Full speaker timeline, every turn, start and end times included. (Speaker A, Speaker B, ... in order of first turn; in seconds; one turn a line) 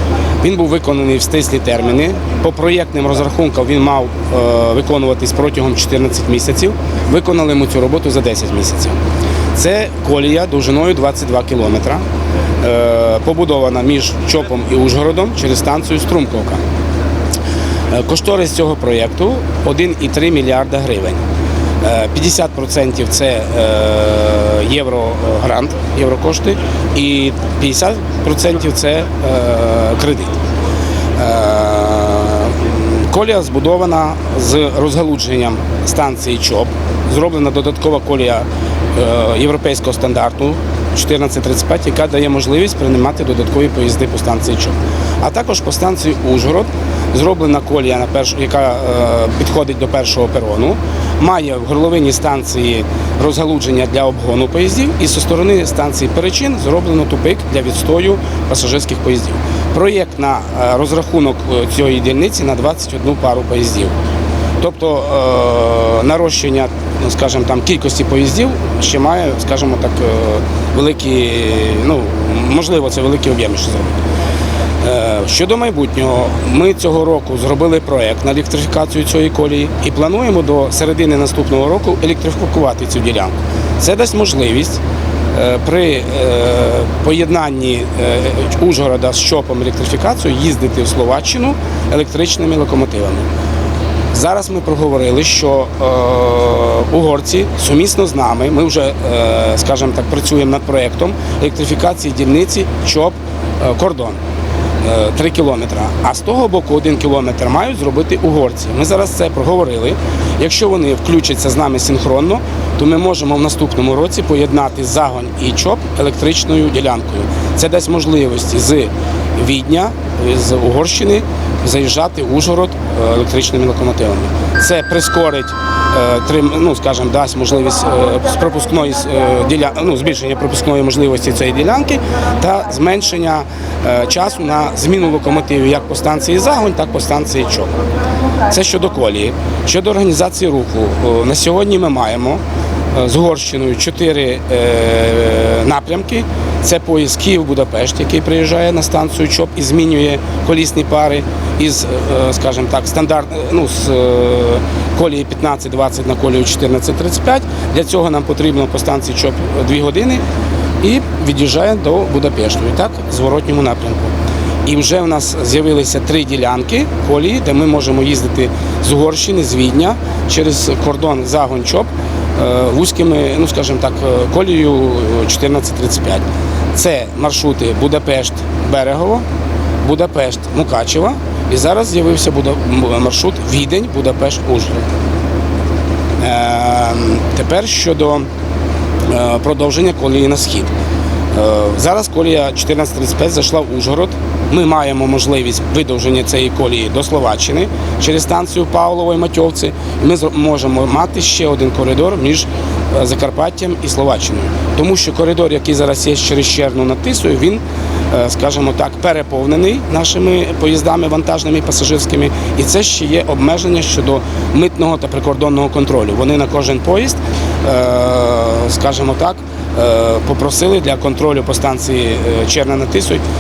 Speaker A: 0.4-9.0
Speaker A: 9.5-12.0
Speaker A: 12.6-16.6
Speaker A: 17.9-21.2
Speaker A: 21.8-30.4
Speaker A: 31.2-64.0
Speaker A: 64.6-74.0
Speaker A: 74.8-84.8
Speaker A: 85.3-93.2
Speaker A: 94.1-104.2
Speaker A: 104.8-137.8
Speaker A: 138.4-142.4
Speaker A: 142.9-160.2
Speaker A: 160.8-164.1
Speaker A: 164.6-179.2
Speaker A: 179.8-184.8
Speaker A: 186.2-188.3
Speaker A: 189.1-190.7
Speaker A: 191.3-223.2